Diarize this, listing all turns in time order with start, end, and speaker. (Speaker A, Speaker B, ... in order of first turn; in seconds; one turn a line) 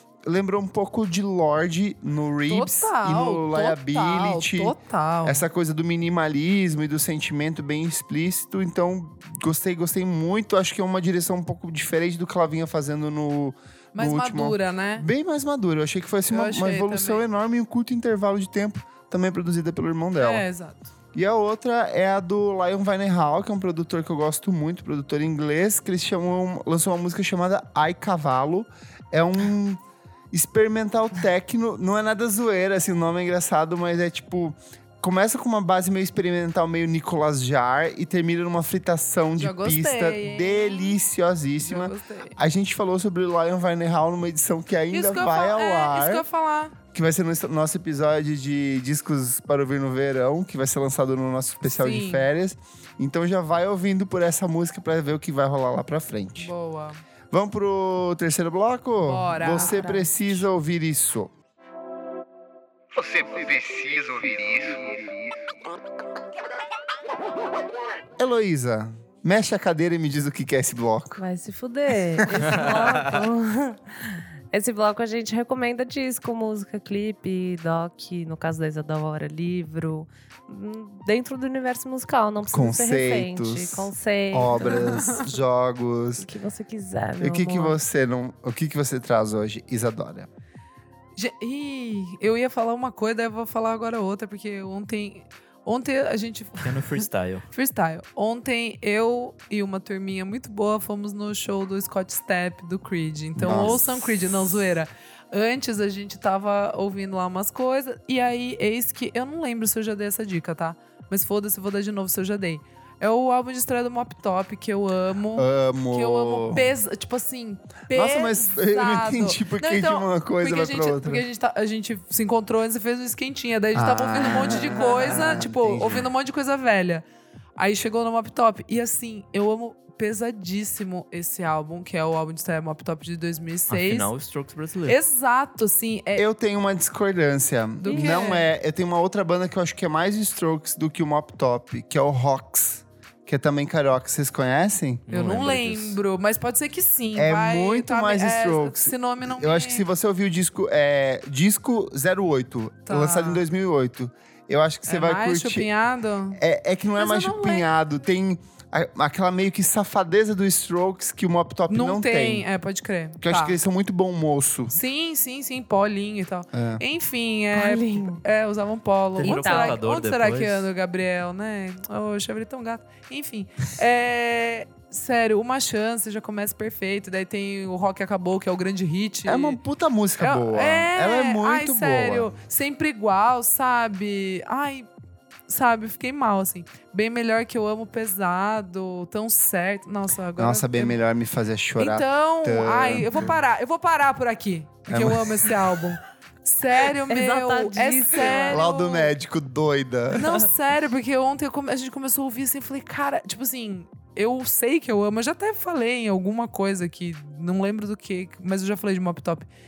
Speaker A: 0.3-20.5
Speaker B: 2.5-5.5
Speaker B: 13.9-15.1
Speaker B: 16.3-17.2
Speaker B: 20.2-20.9
Speaker A: 21.1-29.8
Speaker A: 30.3-46.3
Speaker B: 39.4-41.0
Speaker B: 41.6-42.4
Speaker B: 44.9-46.8
Speaker A: 46.9-56.5
Speaker B: 51.6-52.3
Speaker B: 56.4-57.0
Speaker A: 57.3-61.3
Speaker B: 59.0-60.5
Speaker A: 63.0-65.1
Speaker A: 68.2-71.2
Speaker C: 71.2-85.1
Speaker A: 72.2-72.5
Speaker D: 72.5-72.8
Speaker A: 82.5-86.3
Speaker B: 84.6-85.3
Speaker C: 86.2-87.8
Speaker A: 87.2-90.3
Speaker B: 91.2-127.0
Speaker D: 96.6-97.5
Speaker A: 103.4-103.9
Speaker A: 115.3-116.7
Speaker A: 117.9-121.3
Speaker A: 123.7-126.1
Speaker B: 127.6-134.1
Speaker D: 133.7-135.0
Speaker B: 134.9-136.3
Speaker A: 136.2-145.1
Speaker B: 137.8-138.5
Speaker C: 137.8-138.2
Speaker D: 145.1-146.0
Speaker B: 145.1-149.8
Speaker A: 147.1-155.7
Speaker B: 152.9-153.4
Speaker B: 154.9-156.4
Speaker A: 156.3-162.5
Speaker B: 157.0-157.7
Speaker B: 161.7-163.6
Speaker A: 163.2-164.8
Speaker B: 164.7-179.6
Speaker A: 166.5-166.8
Speaker C: 167.5-168.2
Speaker D: 169.2-170.7
Speaker C: 169.2-169.8
Speaker A: 179.3-182.4
Speaker B: 180.2-184.9
Speaker B: 185.5-191.0
Speaker A: 190.4-193.4
Speaker B: 191.8-199.1
Speaker A: 194.9-195.8
Speaker C: 197.1-198.7
Speaker A: 198.5-200.5
Speaker B: 200.1-209.5